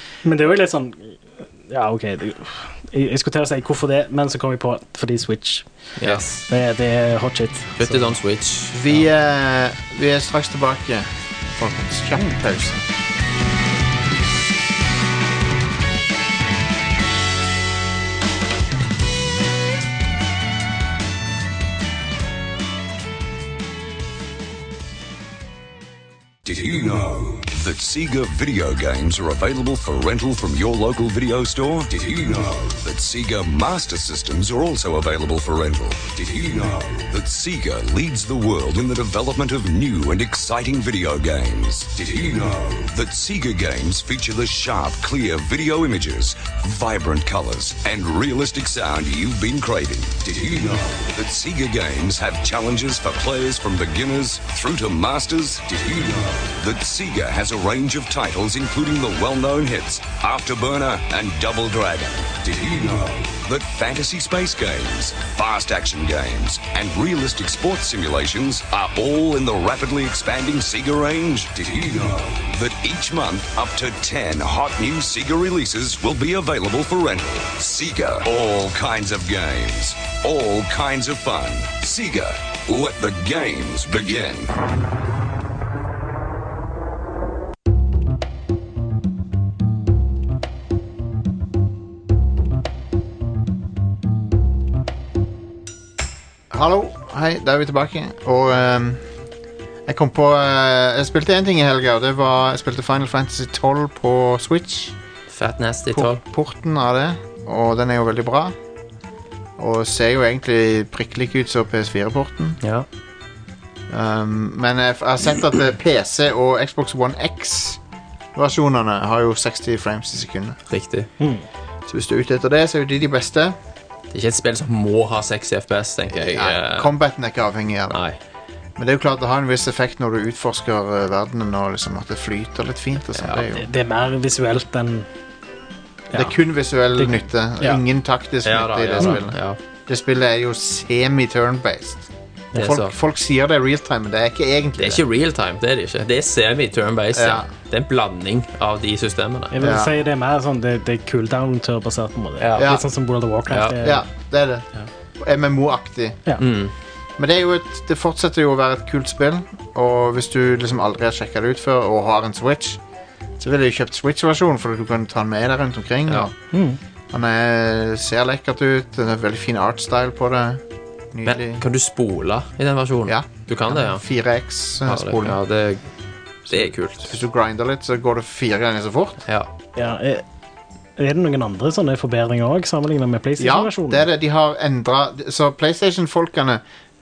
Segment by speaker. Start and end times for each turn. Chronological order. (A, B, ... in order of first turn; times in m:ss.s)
0:00.2-0:05.7 A
0:06.0-0:06.4 B
0:06.5-0:08.1 A
0:07.8-0:09.0 B
0:08.7-0:12.8 C
0:26.4-1:24.5 D
1:36.5-1:39.0 C
1:39.8-1:44.9 C
1:45.3-1:46.2 B
1:45.9-1:48.5 C
1:49.6-1:52.6 C
1:53.9-1:57.8 C
1:58.3-2:00.6 C
2:00.7-2:01.1 B
2:01.2-2:01.4 A
2:01.9-2:03.6 C
2:04.1-2:06.9 B
2:06.1-2:08.0 C
2:07.9-2:08.2 B
2:08.8-2:13.7 C
2:13.1-2:13.5 B
2:13.5-2:15.1 A
2:16.1-2:25.0 C
2:17.0-2:17.8 A
2:18.4-2:19.6 B
2:22.6-2:22.9 B
2:24.8-2:29.5 B
2:27.1-2:27.5 C
2:29.5-2:34.0 A
2:29.6-2:29.9 C
2:32.4-2:32.8 B
2:32.6-2:32.8 C
2:33.5-2:33.8 B
2:33.8-2:34.6 C
2:35.2-2:36.2 C
2:36.4-2:36.7 B
2:37.2-2:42.8 C
2:43.4-2:46.3 C
2:46.5-2:46.8 A
2:47.1-2:50.6 C
2:51.1-2:51.6 C
2:51.2-2:54.0 B
2:53.1-2:55.4 C
2:54.8-2:55.8 B
2:56.4-2:57.2 B
2:56.5-2:59.2 C
2:59.8-3:00.2 A
3:01.0-3:04.0 A
3:03.4-3:06.6 C